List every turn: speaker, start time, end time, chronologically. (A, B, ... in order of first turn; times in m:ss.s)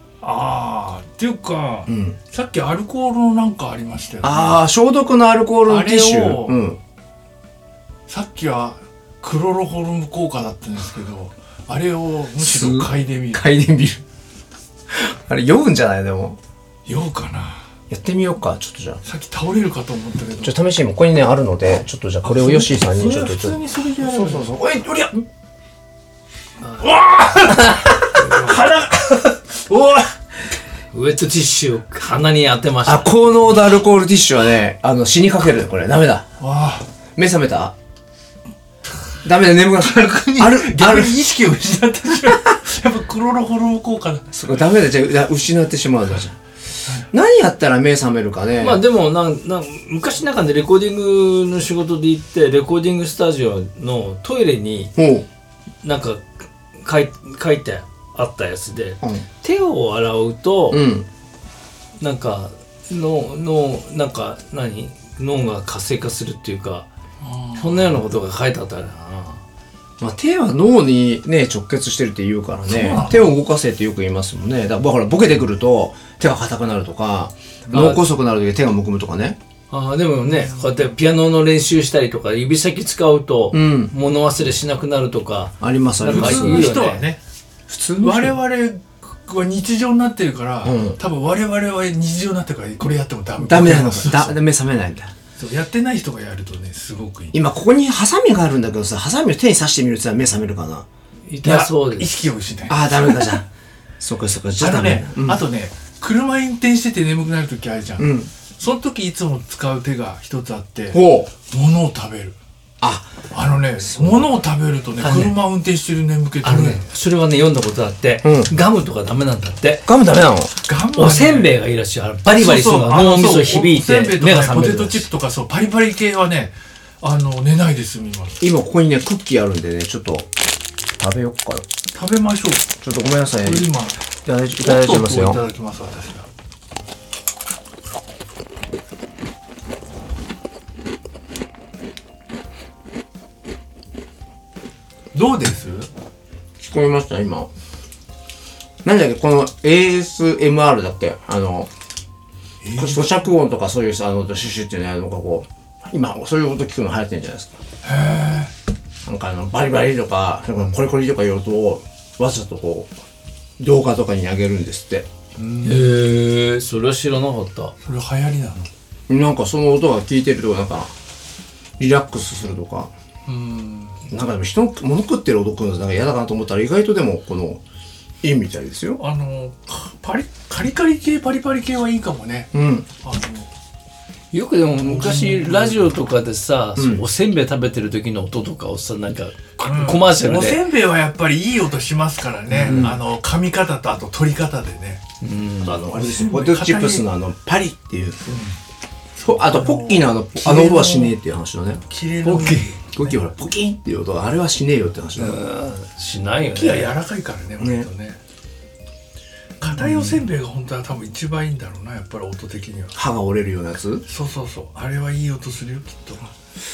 0:00.2-0:04.6 A
0:01.9-0:02.2 B
0:04.2-0:06.8 B
0:05.7-0:06.6 A
0:08.1-0:13.6 A
0:12.4-0:14.0 B
0:14.9-0:16.4 B
0:16.9-0:17.6 A
0:17.9-0:19.0 B
0:19.0-0:20.6 A
0:20.4-0:25.2 B
0:22.2-0:24.5 A
0:26.8-0:30.1 A
0:28.2-0:28.6 C
0:30.9-0:33.2 C
0:32.8-0:36.3 B
0:36.4-0:36.9 A
0:37.2-0:37.7 B
0:39.2-0:41.2 B
0:39.8-0:44.7 A
0:44.4-0:46.4 B
0:47.0-0:48.8 B
0:48.6-0:54.9 C
0:55.0-0:55.3 B
0:55.8-1:00.8 C
0:59.0-0:59.3 B
1:00.7-1:01.1 B
1:02.0-1:06.9 C
1:07.2-1:08.0 A
1:07.6-1:09.4 C
1:10.0-1:19.4 B
1:12.6-1:13.4 A
1:17.7-1:18.0 C
1:19.7-1:27.1 C
1:23.5-1:23.9 B
1:25.6-1:26.7 B
1:26.0-1:27.2 A
1:27.7-1:28.4 B
1:28.0-1:34.4 A
1:30.6-1:31.0 B
1:33.4-1:35.1 B
1:35.4-1:37.4 A
1:37.3-1:40.9 B
1:41.3-1:42.2 C
1:41.4-1:43.4 A
1:42.7-1:43.5 B
1:44.0-1:45.4 B
1:44.6-1:52.4 A
1:48.0-1:48.3 B
1:50.9-1:51.3 B
1:52.8-1:54.3 B
1:53.3-1:56.9 A
1:55.0-1:55.4 C
1:56.4-1:59.9 C
1:58.2-1:58.5 B
1:59.9-2:00.5 B
2:00.6-2:01.6 A
2:00.9-2:05.1 C
2:02.3-2:08.4 A
2:08.4-2:10.3 B
2:11.0-2:11.6 B
2:11.9-2:12.7 A
2:12.8-2:13.7 B
2:13.4-2:14.0 A
2:14.2-2:15.4 B
2:14.6-2:16.3 A
2:25.1-2:25.9 A
2:26.6-2:27.5 B
2:28.8-2:31.7 B
2:32.6-2:33.1 A
2:32.7-2:37.6 B
2:37.8-2:38.5 A
2:39.0-2:42.9 B
2:43.6-2:45.1 B
2:45.4-2:46.0 A
2:45.6-2:47.8 C
2:47.8-2:48.7 A
2:49.1-2:50.9 B
2:51.8-2:52.9 B
2:53.2-2:54.0 A
2:54.1-2:57.6 B
2:58.2-2:59.0 B
2:59.0-3:03.5 A
3:02.5-3:02.9 B
3:04.3-3:10.6 C
3:04.8-3:06.0 A
3:06.8-3:07.0 B
3:09.6-3:15.0 A
3:12.5-3:13.0 B
3:12.6-3:13.0 C
3:15.2-3:16.0 C
3:15.6-3:18.2 B
3:15.9-3:17.1 A
3:18.2-3:18.6 A
3:19.2-3:21.2 A
3:19.2-3:21.8 B
3:21.9-3:23.0 A
3:22.2-3:22.7 C
3:22.9-3:25.4 B
3:25.2-3:26.9 C
3:26.4-3:28.2 A
3:27.6-3:27.9 B
3:29.6-3:33.0 A
3:29.7-3:30.1 B
3:33.0-3:34.0 B
3:34.1-3:36.3 A